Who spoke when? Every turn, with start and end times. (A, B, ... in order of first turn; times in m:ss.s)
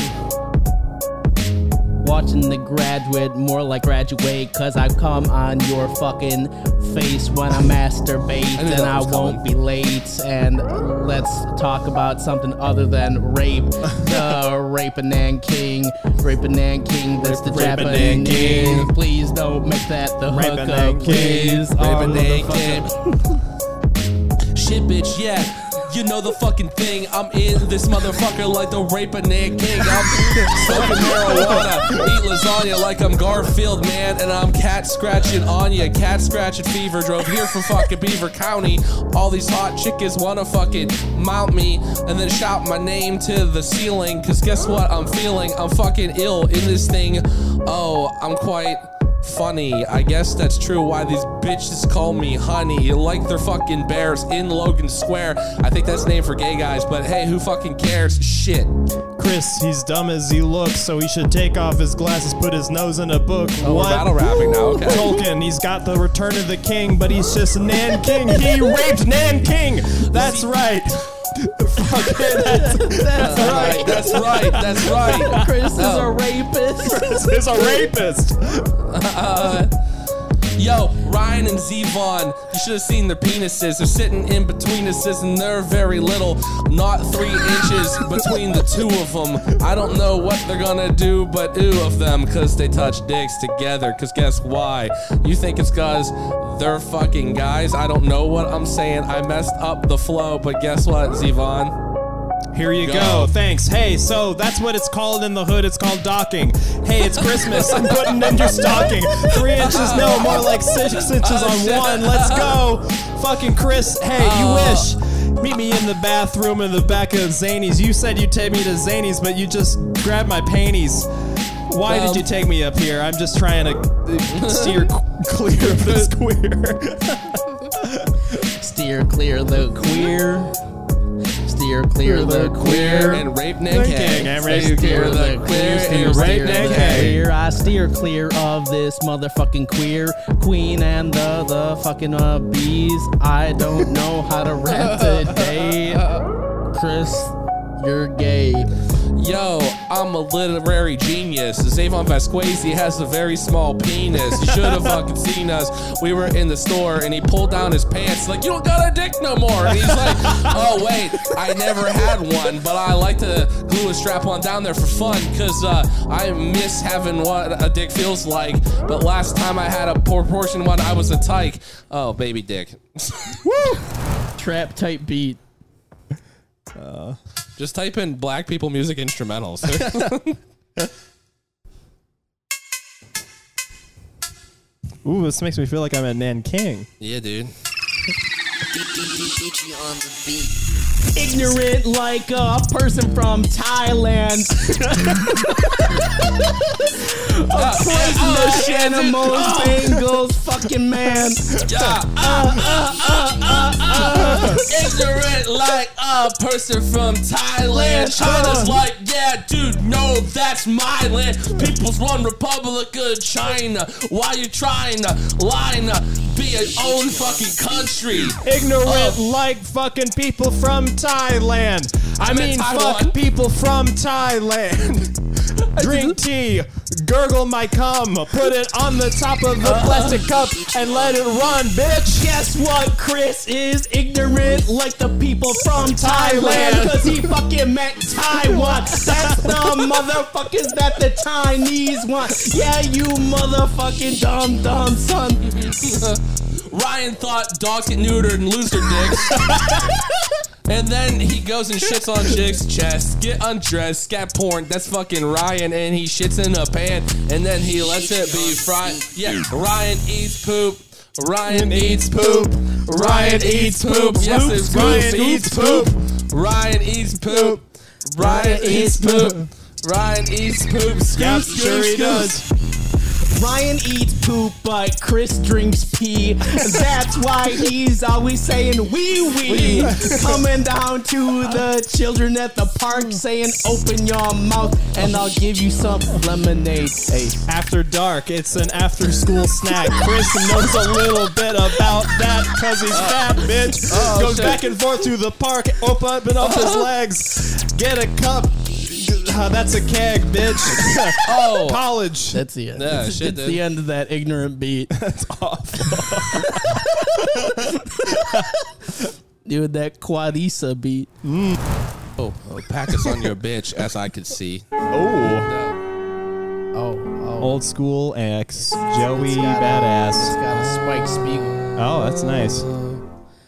0:02.0-0:22.8 A
0:08.5-0:09.4 B
0:14.0-0:14.3 C
0:17.2-0:18.9 C
0:17.5-0:18.9 B
0:20.3-0:22.8 C
0:21.0-0:22.9 B
0:24.5-0:58.7 B
0:30.5-0:32.2 C
0:59.2-1:15.5 C
1:03.6-1:05.2 B
1:04.3-1:05.2 A
1:10.0-1:10.6 B
1:12.0-1:17.9 A
1:13.2-1:16.1 B
1:16.8-1:18.7 C
1:18.9-1:19.7 B
1:20.6-1:41.7 B
1:27.6-1:28.7 C
1:42.5-2:01.1 C
1:42.8-1:43.3 B
1:47.2-1:52.6 B
1:54.1-1:55.0 B
2:01.7-2:08.4 C
2:01.8-2:02.3 B
2:04.3-2:04.9 B
2:05.7-2:06.1 B
2:08.3-2:10.5 A
2:11.4-2:13.2 A
2:12.0-2:15.1 C
2:12.6-2:17.3 B
2:14.3-2:26.1 A
2:15.9-2:17.2 C
2:24.7-2:26.2 B
2:26.7-2:28.7 A
2:29.2-2:53.4 B
2:34.4-2:35.0 C
2:39.7-2:40.6 C
2:53.4-2:53.8 C
2:54.4-2:55.4 A
2:56.7-2:57.2 C
2:57.6-3:00.4 B
2:59.7-3:00.1 C
3:05.0-3:06.9 C
3:07.0-3:07.5 B
3:09.0-3:10.5 B
3:11.1-3:21.6 A
3:17.5-3:20.1 B
3:21.6-3:39.2 B
3:22.2-3:24.8 A
3:24.2-3:24.6 C
3:27.7-3:28.6 A
3:28.2-3:28.7 C
3:38.4-3:52.3 C
3:42.2-3:43.2 B
3:45.8-3:46.1 B
3:49.6-3:50.2 B
3:52.1-4:05.7 A
3:55.8-3:57.3 C
3:58.2-4:00.0 C
4:05.4-4:32.4 B
4:21.4-4:25.9 C
4:27.2-4:27.6 C
4:28.2-4:29.2 A
4:28.4-4:29.5 C
4:31.1-4:32.4 C
4:33.2-4:47.4 A
4:39.5-4:40.4 C
4:39.5-4:39.9 B
4:47.5-5:02.4 C
4:52.9-4:54.6 B
4:56.4-4:56.9 B
5:01.2-5:01.8 B
5:02.3-5:04.9 A
5:02.7-5:03.6 B
5:04.9-5:09.1 C
5:05.9-5:08.7 A
5:09.4-5:11.1 A
5:11.2-5:11.6 C
5:12.2-5:14.7 B
5:12.9-5:13.3 C
5:14.9-5:15.5 C
5:15.2-5:15.8 B
5:16.7-5:17.6 A
5:17.4-5:20.4 C
5:18.6-5:21.6 A
5:20.5-5:23.0 B
5:21.8-5:22.7 C